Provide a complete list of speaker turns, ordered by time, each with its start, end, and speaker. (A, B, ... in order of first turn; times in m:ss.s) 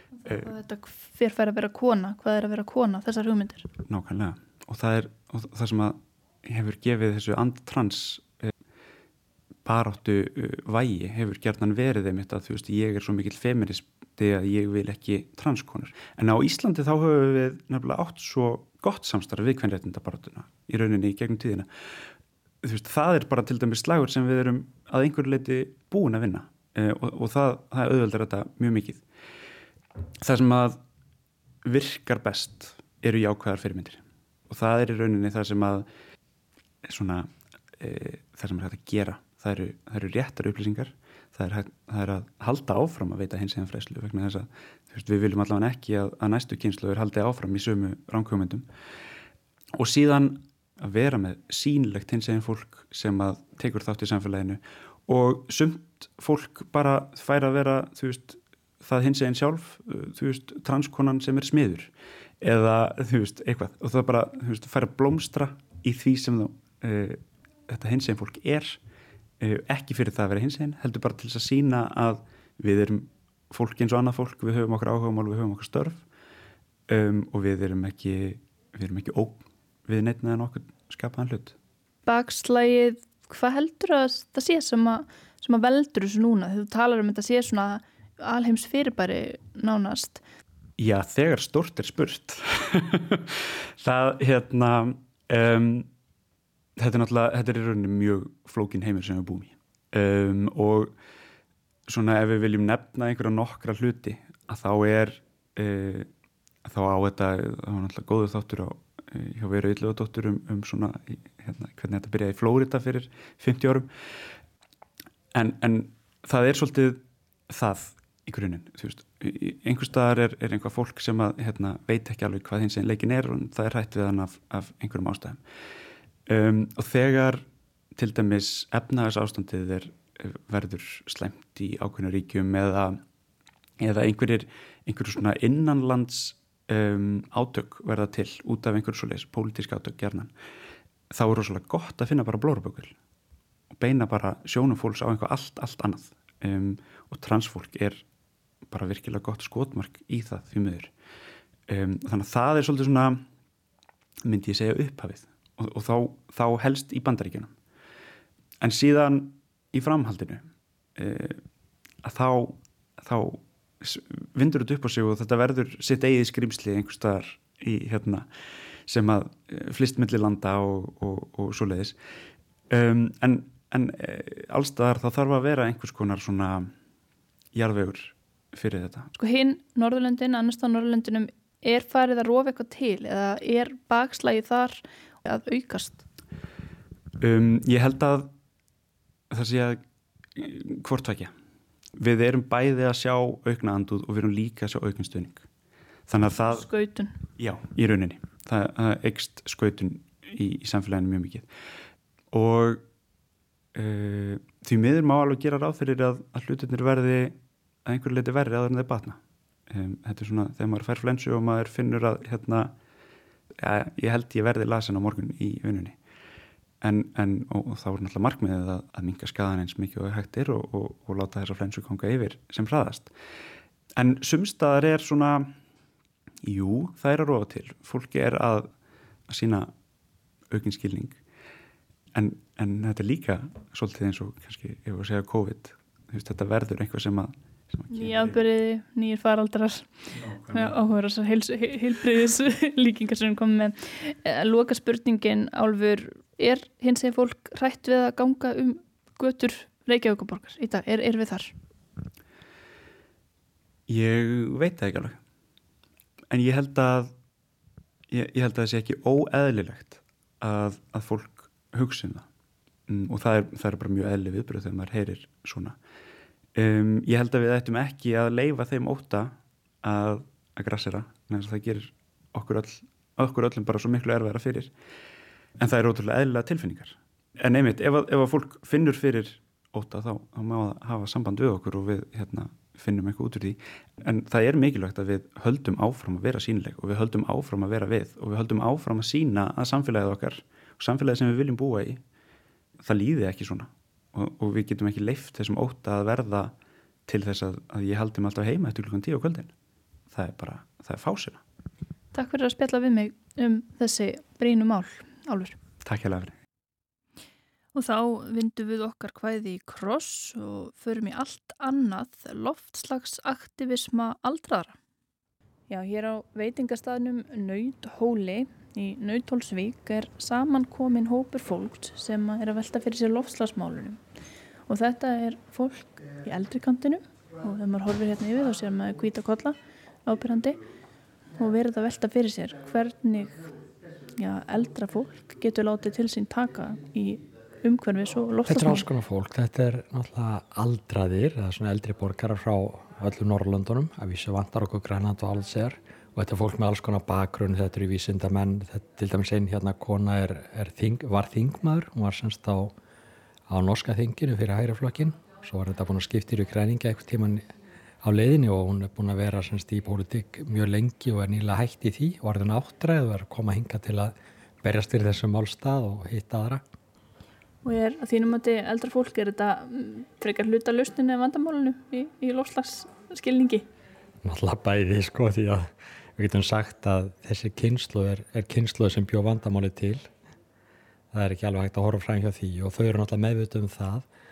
0:00.2-0:03.7 A
0:03.9-0:08.5 B
0:09.6-0:21.7 B
0:22.6-0:29.0 B
0:30.2-0:30.8 B
0:31.6-0:35.9 B
0:36.8-0:48.7 B
0:49.7-1:08.8 B
1:09.4-1:16.0 B
1:16.9-1:21.6 B
1:22.1-1:30.2 A
1:30.8-1:35.9 B
1:36.8-1:40.9 B
1:41.9-1:46.1 B
1:46.6-1:53.9 B
1:55.3-2:05.4 B
2:06.3-2:13.0 B
2:13.8-2:20.3 B
2:21.1-2:23.0 B
2:23.7-2:28.0 B
2:28.7-2:30.9 B
2:31.7-2:33.2 B
2:34.2-2:37.5 B
2:38.6-2:41.4 B
2:42.0-2:48.3 B
2:48.9-2:52.0 B
2:52.7-2:56.7 B
2:57.5-2:59.1 B
2:59.2-3:06.0 A
3:07.2-3:08.3 B
3:09.3-3:09.8 B
3:10.4-3:11.3 B
3:12.0-3:15.5 B
3:16.1-3:16.7 B
3:16.4-3:17.1 A
3:17.4-3:21.5 B
3:22.3-3:22.8 B
3:23.7-3:32.8 B
3:33.6-3:36.0 B
3:36.8-3:43.1 B
3:44.0-3:45.5 B
3:46.4-3:48.7 B
3:49.3-3:49.7 B
3:50.5-3:51.2 B
3:52.1-3:58.4 B
3:57.9-4:11.5 A
4:00.1-4:00.8 B
4:13.9-4:15.2 B
4:16.3-4:17.1 B
4:18.1-4:22.3 B
4:22.9-4:25.8 B
4:26.6-4:34.7 B
4:35.6-4:52.0 B
4:52.8-4:56.5 B
4:57.1-4:59.5 B
5:00.1-5:01.4 B
5:02.1-5:05.6 A
5:05.8-5:06.4 B
5:07.8-5:14.8 A
5:15.7-5:24.0 A
5:24.7-5:30.6 A
5:31.4-5:33.4 A
5:34.2-5:38.8 A
5:38.5-5:52.8 C
5:53.5-5:57.4 C
5:58.0-6:06.6 C
6:07.6-6:13.7 A
6:14.2-6:20.1 C
6:21.1-6:24.1 C